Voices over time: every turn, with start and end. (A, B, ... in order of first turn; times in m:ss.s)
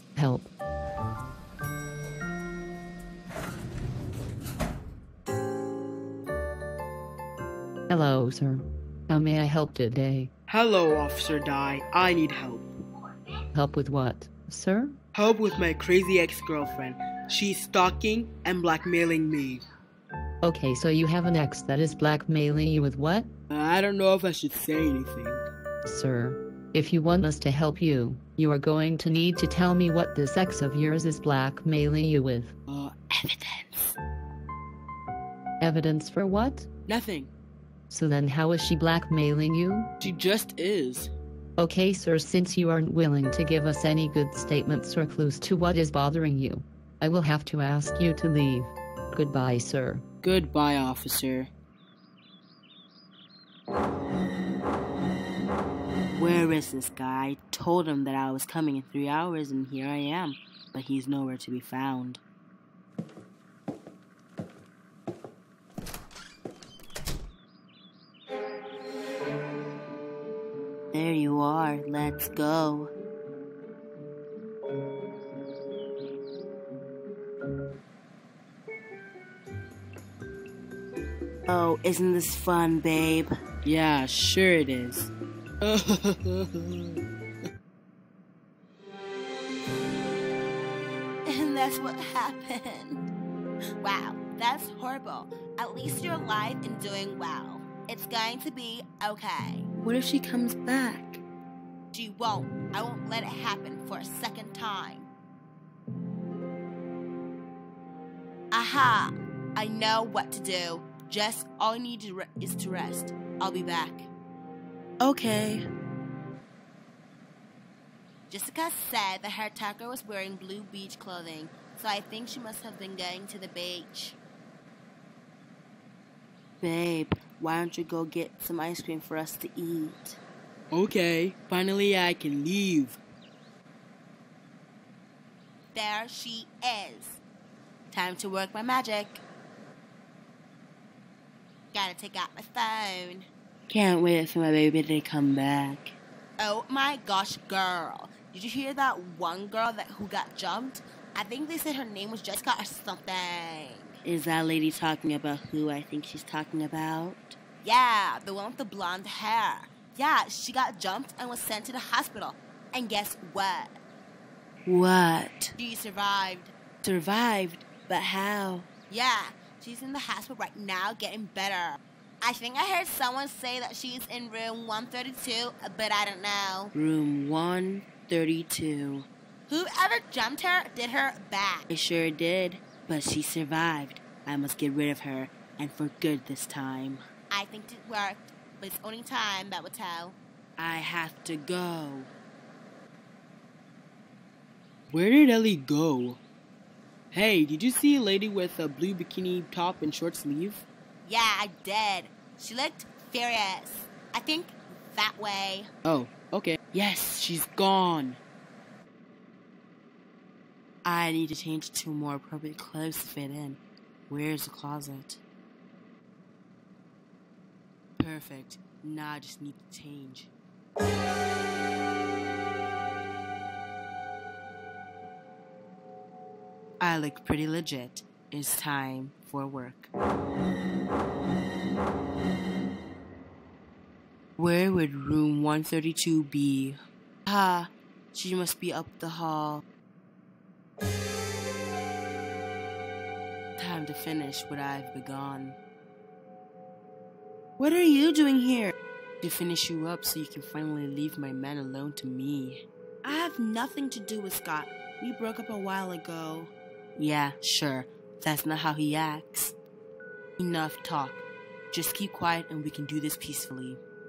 0:00.2-0:00.5 A
0:07.9-0:10.3 A
0:10.5-0:12.7 B
0:13.5-0:15.0 A
0:15.1-0:19.6 B
0:20.4-0:23.3 A
0:23.5-0:25.4 B
0:25.8-0:32.5 A
0:32.7-0:34.0 B
0:35.6-0:36.7 A
0:36.9-0:37.3 B
0:37.9-0:39.9 A
0:40.0-0:41.1 B
0:41.6-0:50.0 A
0:50.2-0:51.5 B
0:56.1-1:02.2 B
1:10.9-1:12.9 B
1:21.5-1:27.0 B
1:31.3-1:33.0 C
1:33.8-1:39.7 C
1:39.8-1:41.2 B
1:41.9-1:45.1 C
1:48.5-1:54.1 C
1:55.0-1:55.6 B
1:58.3-2:04.2 C
2:06.6-2:10.2 B
2:10.7-2:13.0 B
2:15.7-2:17.2 C
2:17.9-2:19.2 B
2:21.7-2:23.3 C
2:23.7-2:26.0 B
2:26.4-2:34.0 C
2:34.0-2:37.4 B
2:37.6-2:43.8 C
2:44.7-2:45.6 B
2:45.6-2:46.6 C
2:46.8-2:48.7 B
2:48.9-2:56.7 C
2:56.7-2:59.1 B
2:59.5-3:01.7 C
3:01.7-3:07.0 B
3:07.3-3:10.2 C
3:10.6-3:12.1 B
3:14.9-3:16.2 B
3:17.1-3:20.7 B
3:21.0-3:25.7 C
3:25.8-3:28.2 B
3:30.8-3:35.2 B
3:38.0-3:40.3 B
3:46.8-3:49.9 B
3:54.4-3:59.6 B
4:03.6-4:05.6 B
4:07.6-4:19.6 B
4:20.4-4:23.8 B